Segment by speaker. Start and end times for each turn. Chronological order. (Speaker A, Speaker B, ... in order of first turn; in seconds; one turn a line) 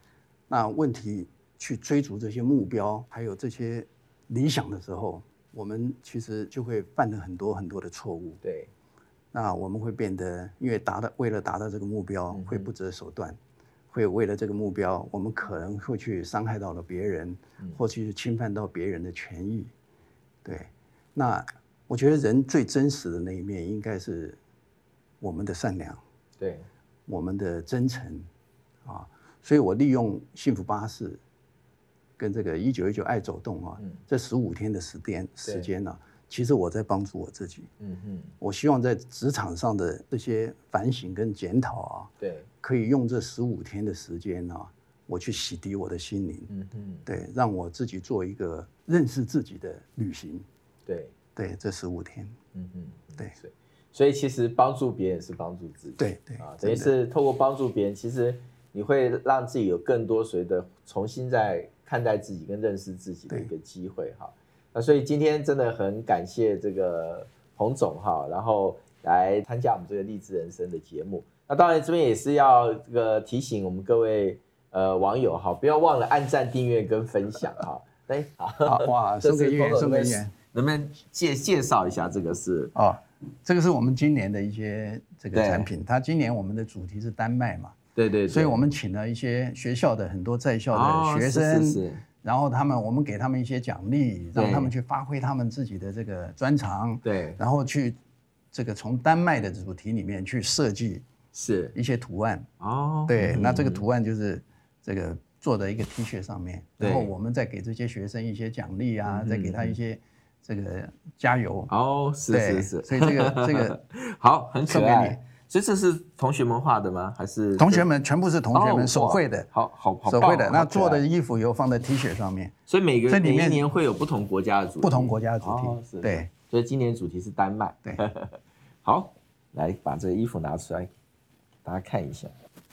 Speaker A: 0.5-8.4
Speaker B: 8.4-8.7
Speaker A: 9.3-13.4
Speaker B: 12.3-12.7
Speaker A: 13.9-19.7
Speaker A: 20.4-24.4
Speaker A: 25.2-26.0
Speaker B: 26.4-26.7
Speaker A: 27.1-28.3
Speaker A: 28.9-31.2
Speaker A: 32.2-37.7
Speaker B: 35.4-35.7
Speaker B: 37.8-38.4
Speaker A: 38.4-46.5
Speaker B: 42.2-42.5
Speaker B: 46.5-47.1
Speaker A: 47.1-50.5
Speaker B: 50.9-51.1
Speaker A: 51.4-52.4
Speaker B: 52.5-82.7
Speaker A: 56.0-56.9
Speaker A: 78.7-80.3
Speaker A: 82.8-87.8
Speaker B: 85.3-85.7
Speaker B: 88.0-88.7
Speaker A: 88.3-98.0
Speaker B: 90.7-92.0
Speaker B: 94.3-94.7
Speaker B: 97.0-97.4
Speaker A: 98.5-101.0
Speaker B: 101.3-101.8
Speaker A: 101.7-102.5
Speaker B: 102.6-103.8
Speaker A: 103.1-111.7
Speaker B: 106.8-107.1
Speaker B: 109.0-109.8
Speaker B: 111.7-117.9
Speaker A: 112.3-113.8
Speaker A: 114.7-115.2
Speaker A: 117.5-119.5
Speaker B: 118.5-121.0
Speaker A: 120.1-122.5
Speaker B: 122.7-130.9
Speaker A: 123.1-123.7
Speaker A: 124.8-126.3
Speaker B: 131.7-132.3